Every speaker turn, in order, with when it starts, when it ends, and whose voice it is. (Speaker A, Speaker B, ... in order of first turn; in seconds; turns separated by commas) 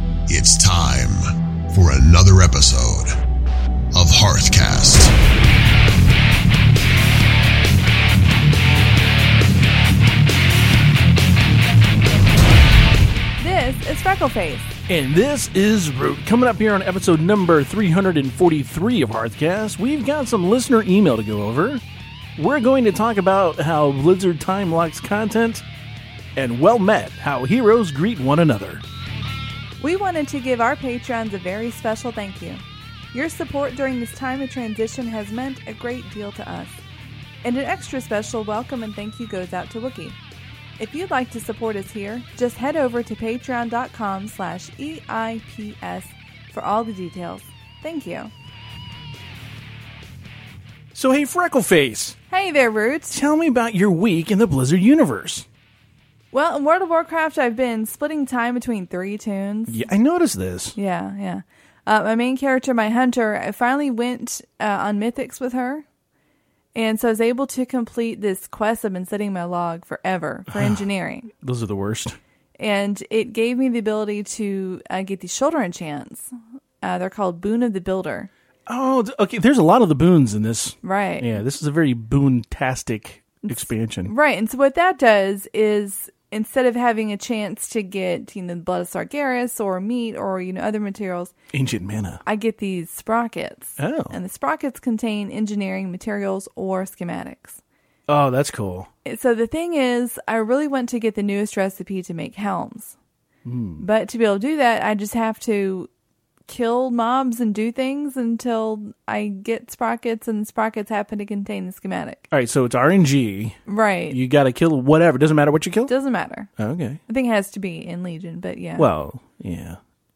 Speaker A: 0.3-3.1, Speaker A: 3.9-5.1, Speaker B: 13.4-14.7, Speaker C: 14.9-21.8, Speaker C: 22.4-25.6, Speaker C: 26.4-28.8, Speaker B: 29.8-32.6, Speaker B: 33.1-36.8, Speaker B: 37.4-40.2, Speaker B: 40.8-48.3, Speaker C: 50.9-52.2, Speaker B: 52.3-53.2, Speaker C: 53.1-55.5, Speaker B: 56.3-59.9, Speaker C: 59.7-60.8, Speaker B: 60.8-65.8, Speaker B: 66.7-71.3, Speaker C: 70.5-72.2, Speaker B: 72.6-76.3, Speaker B: 76.8-78.3, Speaker C: 78.7-84.1, Speaker B: 80.8-81.4, Speaker B: 83.4-91.3, Speaker C: 91.5-92.2, Speaker B: 92.2-97.6, Speaker C: 93.8-94.2, Speaker C: 98.1-98.9, Speaker B: 99.0-102.9, Speaker C: 103.4-103.8, Speaker B: 103.8-105.9, Speaker B: 106.5-112.2, Speaker C: 112.3-113.6, Speaker B: 113.7-114.2, Speaker C: 114.1-115.9, Speaker B: 115.9-116.5, Speaker C: 116.6-117.0, Speaker B: 117.1-118.9, Speaker C: 118.8-119.8